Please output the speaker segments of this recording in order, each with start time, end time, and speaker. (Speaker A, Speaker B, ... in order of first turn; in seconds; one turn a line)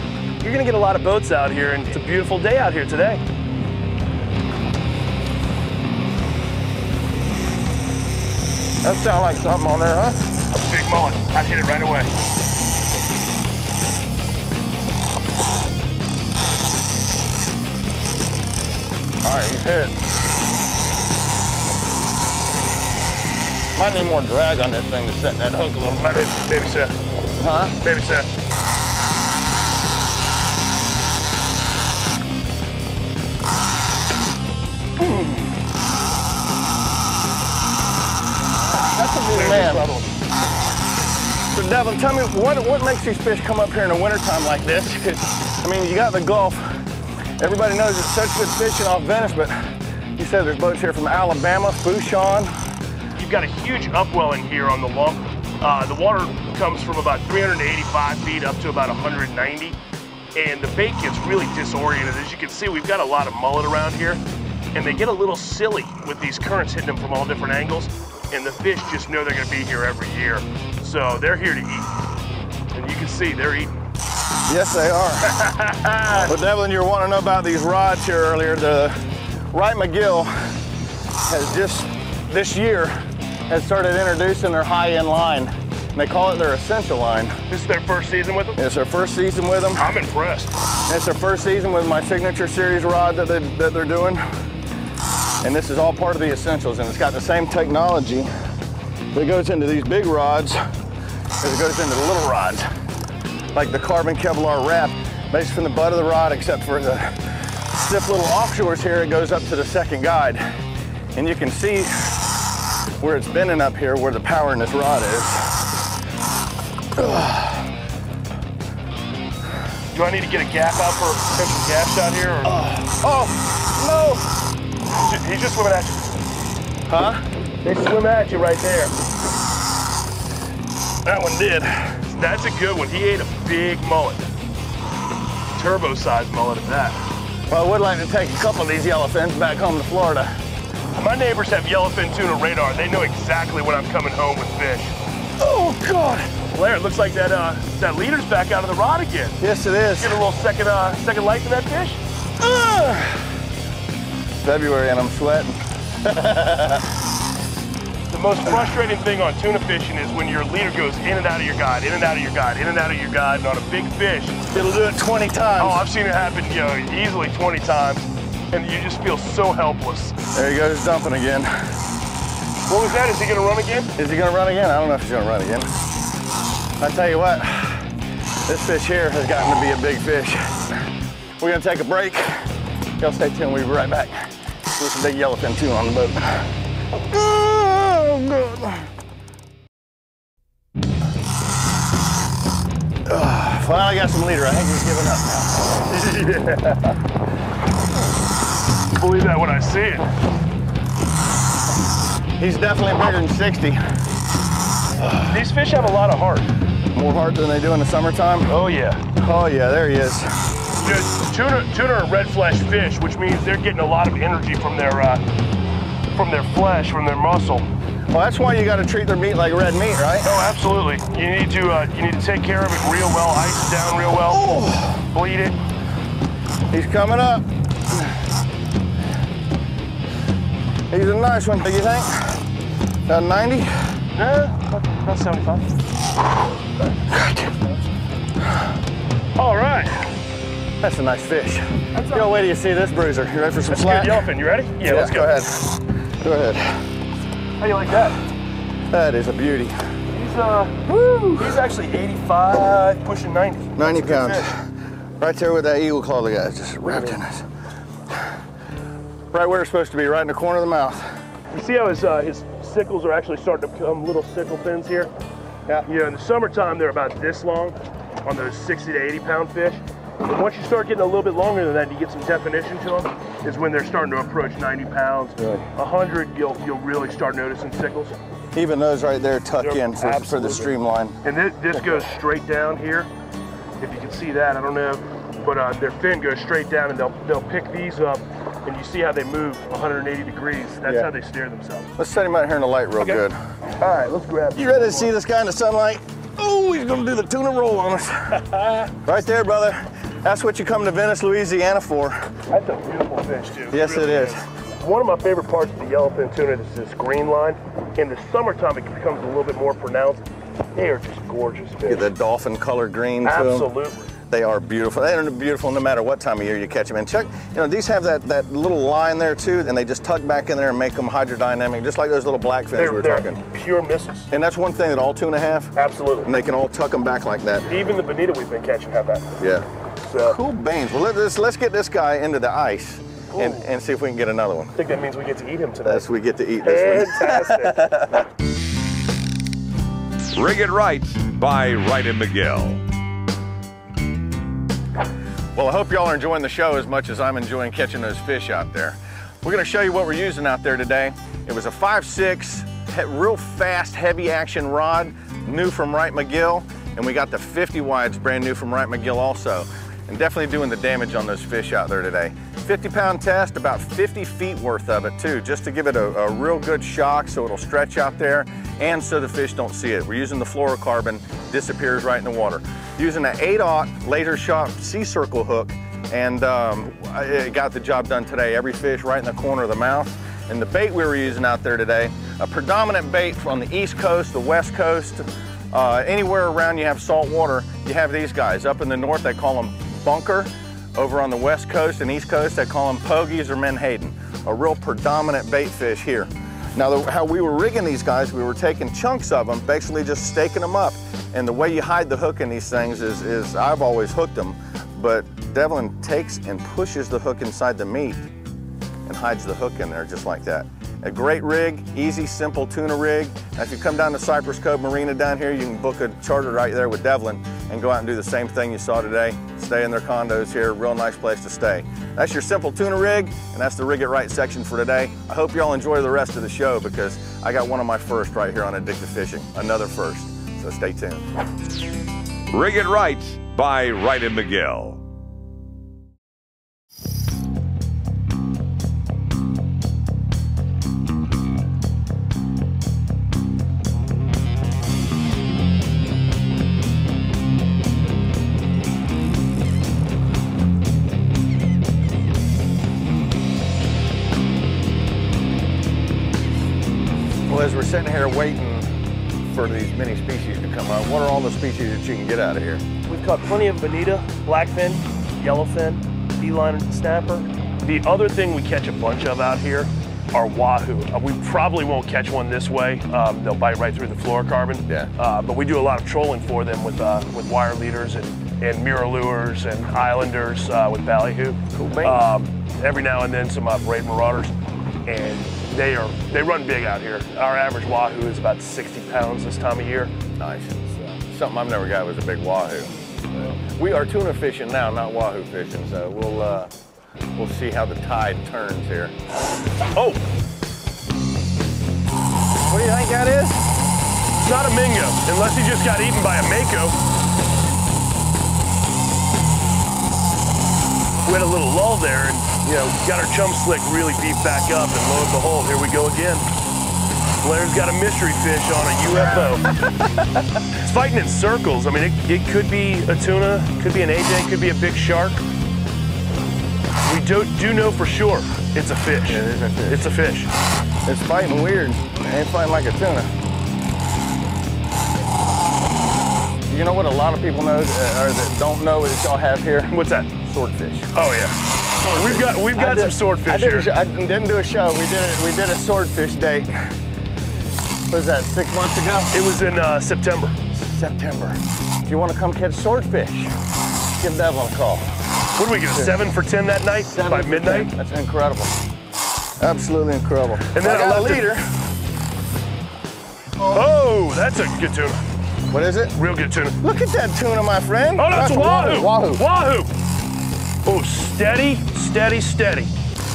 Speaker A: 0.4-3.2
Speaker B: 8.8-10.2
Speaker A: 10.5-12.1
Speaker B: 19.2-19.9
Speaker B: 23.8-26.3
Speaker A: 26.0-26.9
Speaker B: 27.4-27.8
Speaker A: 27.8-28.3
Speaker B: 38.9-39.9
Speaker A: 39.3-40.1
Speaker B: 41.5-46.8
Speaker B: 47.4-52.5
Speaker A: 53.2-59.8
Speaker A: 60.4-64.2
Speaker A: 64.7-71.9
Speaker A: 72.7-73.7
Speaker B: 74.5-75.5
Speaker A: 75.5-76.1
Speaker B: 76.1-79.0
Speaker B: 79.5-80.6
Speaker B: 81.2-82.9
Speaker B: 83.5-87.4
Speaker A: 87.5-88.6
Speaker B: 88.6-90.0
Speaker A: 89.8-90.5
Speaker B: 90.9-94.2
Speaker B: 95.4-98.3
Speaker B: 99.1-100.6
Speaker B: 101.4-102.7
Speaker B: 103.5-110.4
Speaker B: 111.2-112.3
Speaker B: 113.0-115.7
Speaker B: 117.0-117.7
Speaker A: 119.9-122.6
Speaker B: 122.5-124.2
Speaker A: 125.0-126.0
Speaker B: 126.9-127.2
Speaker A: 127.6-128.9
Speaker B: 131.1-132.0
Speaker A: 132.1-134.3
Speaker A: 135.6-137.0
Speaker B: 137.5-140.3
Speaker A: 140.9-144.9
Speaker B: 145.4-146.3
Speaker A: 146.5-149.4
Speaker B: 149.4-150.2
Speaker A: 150.0-152.0
Speaker B: 152.4-153.3
Speaker B: 154.4-156.9
Speaker A: 158.1-164.4
Speaker B: 164.5-165.8
Speaker A: 165.6-170.1
Speaker B: 170.3-171.5
Speaker A: 172.7-173.9
Speaker B: 174.0-175.7
Speaker B: 176.8-177.9
Speaker B: 178.5-180.7
Speaker B: 181.4-182.5
Speaker B: 183.0-186.5
Speaker B: 187.1-188.9
Speaker B: 193.1-195.9
Speaker A: 195.9-197.0
Speaker A: 198.9-200.1
Speaker B: 202.4-203.8
Speaker A: 205.0-206.5
Speaker B: 206.9-208.5
Speaker A: 208.5-209.0
Speaker B: 209.1-210.3
Speaker A: 210.8-215.2
Speaker A: 216.1-217.7
Speaker B: 218.1-220.5
Speaker A: 220.2-224.5
Speaker B: 224.3-225.0
Speaker A: 225.1-225.6
Speaker B: 226.7-227.5
Speaker B: 230.9-232.5
Speaker B: 233.1-234.0
Speaker A: 234.2-235.7
Speaker B: 237.1-237.5
Speaker A: 239.4-240.0
Speaker B: 240.8-244.3
Speaker A: 241.9-242.3
Speaker A: 243.7-245.4
Speaker B: 244.8-246.8
Speaker A: 247.6-248.2
Speaker B: 248.9-249.8
Speaker A: 250.1-250.8
Speaker B: 250.9-251.6
Speaker A: 251.4-254.5
Speaker B: 253.8-254.7
Speaker B: 255.2-257.5
Speaker A: 256.9-257.2
Speaker B: 259.3-261.1
Speaker A: 261.5-265.1
Speaker A: 265.9-278.1
Speaker B: 278.5-281.2
Speaker A: 279.6-283.1
Speaker A: 283.8-291.9
Speaker B: 292.0-293.4
Speaker A: 293.8-295.1
Speaker B: 294.6-302.3
Speaker A: 302.5-312.1
Speaker B: 303.7-304.4
Speaker B: 311.9-313.7
Speaker A: 313.2-314.1
Speaker B: 314.3-323.4
Speaker A: 322.8-324.3
Speaker B: 324.3-327.7
Speaker A: 325.8-326.3
Speaker A: 327.7-329.3
Speaker B: 329.4-329.6
Speaker A: 330.0-330.4
Speaker B: 330.2-334.7
Speaker A: 333.3-333.6
Speaker A: 334.8-336.1
Speaker B: 335.9-338.2
Speaker A: 336.6-338.1
Speaker C: 340.3-342.8
Speaker B: 345.6-408.3
Speaker B: 409.1-431.3
Speaker C: 432.5-435.0
Speaker B: 457.5-458.9
Speaker B: 459.5-462.8
Speaker A: 463.1-484.5
Speaker B: 481.7-482.3
Speaker A: 485.1-490.1
Speaker B: 490.4-496.7
Speaker B: 497.4-499.1
Speaker A: 499.9-500.2
Speaker B: 502.7-503.7
Speaker A: 504.4-507.0
Speaker A: 511.2-516.5
Speaker A: 517.4-519.7
Speaker A: 520.8-525.4
Speaker A: 527.0-530.5
Speaker B: 529.2-530.1
Speaker B: 531.1-533.3
Speaker B: 536.7-541.1
Speaker A: 539.9-540.3
Speaker A: 541.1-543.9
Speaker B: 542.0-546.9
Speaker B: 548.1-549.4
Speaker A: 549.3-550.5
Speaker B: 550.8-553.5
Speaker B: 554.2-555.1
Speaker A: 555.6-557.9
Speaker B: 557.1-558.7
Speaker B: 559.6-561.7
Speaker A: 560.7-561.5
Speaker A: 563.7-565.2
Speaker B: 565.7-566.2
Speaker A: 566.1-566.8
Speaker B: 566.8-569.4
Speaker A: 568.2-569.9
Speaker A: 570.8-572.9